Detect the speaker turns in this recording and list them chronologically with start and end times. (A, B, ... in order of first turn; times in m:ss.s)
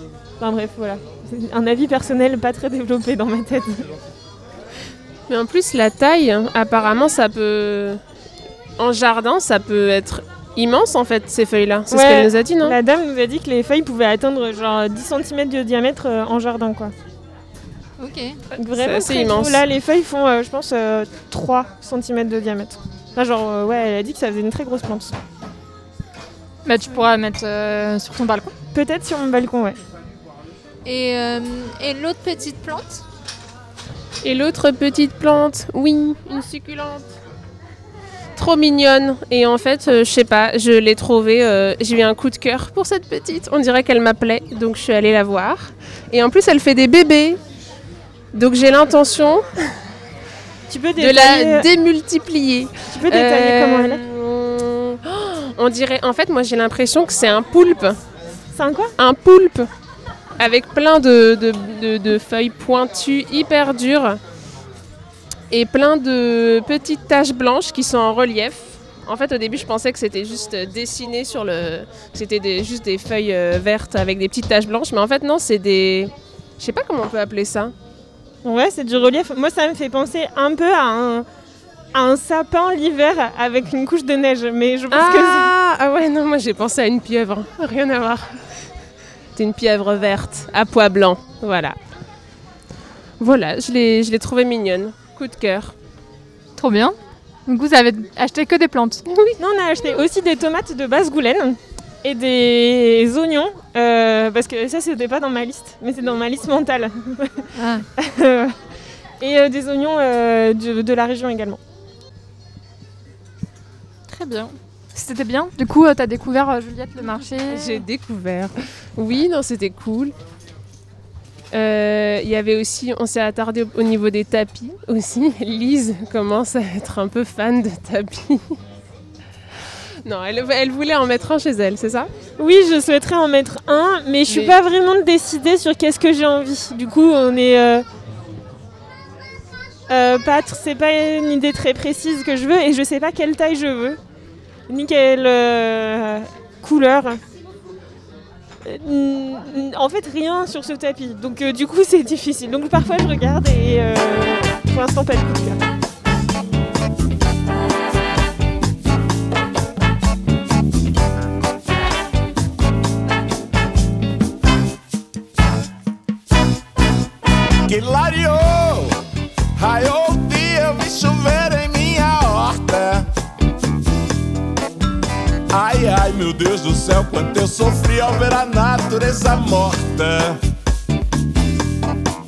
0:00.4-0:03.8 A
0:05.3-0:08.0 B
0:08.8-0:12.8 B
0:11.9-0:16.9 A
0:18.0-0:18.4 C
0:18.6-0:25.1 A
0:18.7-0:19.6 B
0:26.6-0:28.5 D
0:28.7-0:29.8 A
0:30.8-0:33.0 C
0:34.2-0:37.1 B
0:38.4-0:47.4 B
0:48.3-0:49.5 B
0:50.7-0:51.7 A
0:51.0-0:58.0 B
0:52.9-0:54.0 A
0:58.5-0:58.9 A
0:59.0-0:59.7 B
1:00.4-1:04.2 B
1:05.5-1:17.7 B
1:18.4-1:21.2 A
1:21.9-1:25.5 A
1:24.9-1:28.4 B
1:29.3-1:31.8 B
1:33.2-1:35.7 B
1:36.6-1:37.0 D
1:37.5-1:39.0 D
1:39.1-1:39.4 B
1:39.4-1:47.5 A
1:48.0-1:48.6 A
1:49.2-1:51.6 A
1:54.1-1:57.8 D
1:57.5-2:00.1 B
2:01.5-2:08.6 B
2:10.0-2:12.1 B
2:12.4-2:17.8 A
2:19.9-2:24.0 A
2:24.7-2:27.2 A
2:28.6-2:35.6 A
2:47.7-2:49.0 E
2:49.6-2:53.1 E
2:55.5-3:00.4 E